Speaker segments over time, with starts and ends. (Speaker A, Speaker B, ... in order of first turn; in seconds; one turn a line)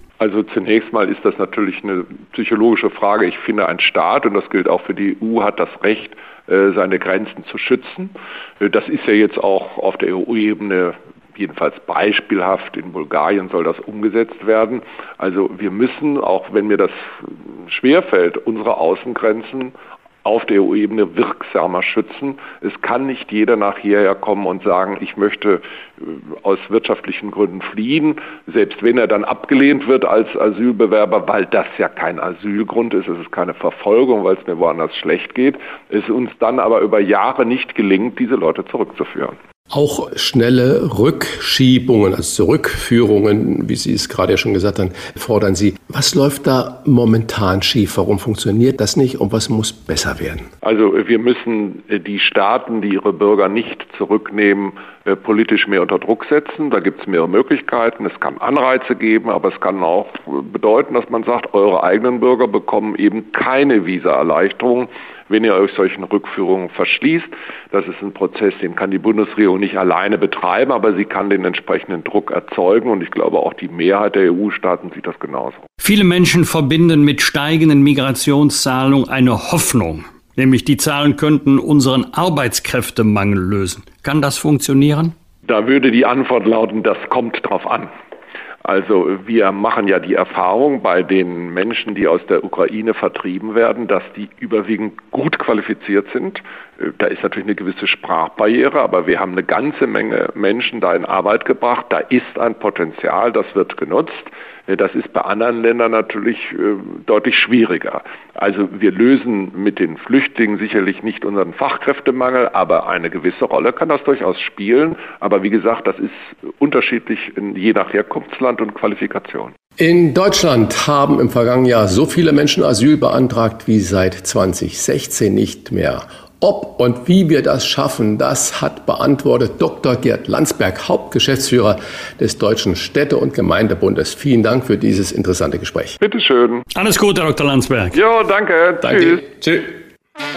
Speaker A: 0.2-39.4
Speaker B: 39.7-50.5
Speaker A: 50.6-75.6
Speaker C: 75.8-85.1
Speaker A: 85.5-87.9
Speaker A: 88.6-119.5
Speaker B: 119.8-136.0
Speaker A: 136.0-136.6
Speaker C: 136.7-138.0
Speaker A: 137.9-139.4